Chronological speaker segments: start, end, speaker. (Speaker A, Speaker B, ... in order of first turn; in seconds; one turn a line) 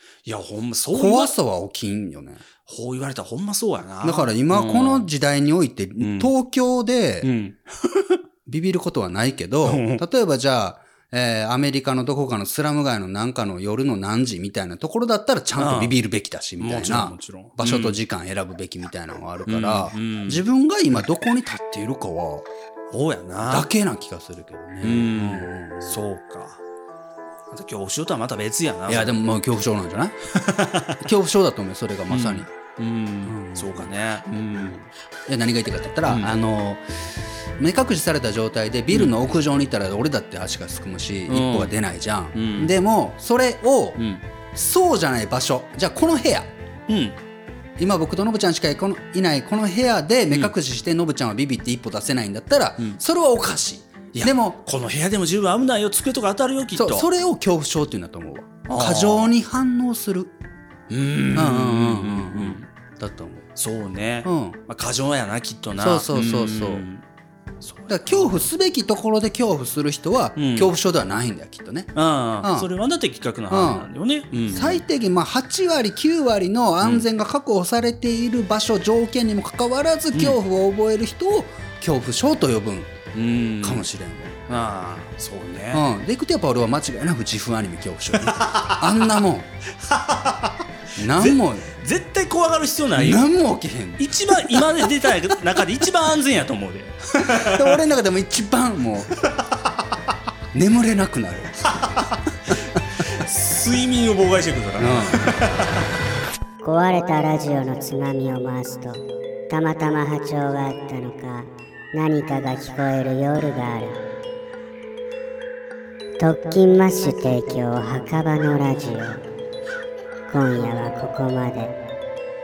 Speaker A: 0.2-1.3
Speaker B: 0.9-2.4
Speaker A: 2.6-5.1
Speaker B: 4.0-7.3
Speaker A: 6.0-6.3
Speaker A: 7.2-8.2
Speaker B: 8.4-22.5
Speaker A: 9.6-10.0
Speaker A: 15.6-16.0
Speaker A: 16.6-18.0
Speaker A: 19.4-20.4
Speaker A: 22.9-23.7
Speaker B: 23.5-26.0
Speaker A: 24.8-26.6
Speaker A: 27.5-29.1
Speaker B: 28.9-30.1
Speaker A: 30.3-31.1
Speaker B: 31.0-32.5
Speaker A: 32.1-34.8
Speaker B: 33.2-33.9
Speaker B: 34.5-44.0
Speaker A: 41.3-41.7
Speaker A: 42.3-42.7
Speaker A: 44.0-44.2
Speaker B: 44.5-46.5
Speaker A: 46.9-47.1
Speaker B: 47.8-54.6
Speaker A: 54.1-57.1
Speaker B: 56.7-60.3
Speaker A: 58.6-59.3
Speaker A: 60.9-62.7
Speaker B: 61.3-63.5
Speaker A: 63.5-67.0
Speaker B: 64.2-64.6
Speaker B: 65.8-66.8
Speaker B: 67.8-72.7
Speaker A: 70.3-70.7
Speaker A: 71.9-74.8
Speaker B: 73.5-73.9
Speaker B: 74.4-82.9
Speaker A: 76.8-77.1
Speaker A: 83.1-83.8
Speaker B: 83.6-84.4
Speaker A: 84.5-85.8
Speaker B: 85.7-89.5
Speaker A: 88.2-89.1
Speaker A: 89.8-93.3
Speaker B: 91.0-91.7
Speaker B: 93.0-95.1
Speaker A: 94.0-97.8
Speaker B: 97.3-99.2
Speaker B: 100.5-101.6
Speaker A: 101.7-105.8
Speaker B: 104.8-105.2
Speaker C: 106.6-114.0
Speaker C: 116.2-119.2
Speaker C: 120.3-121.7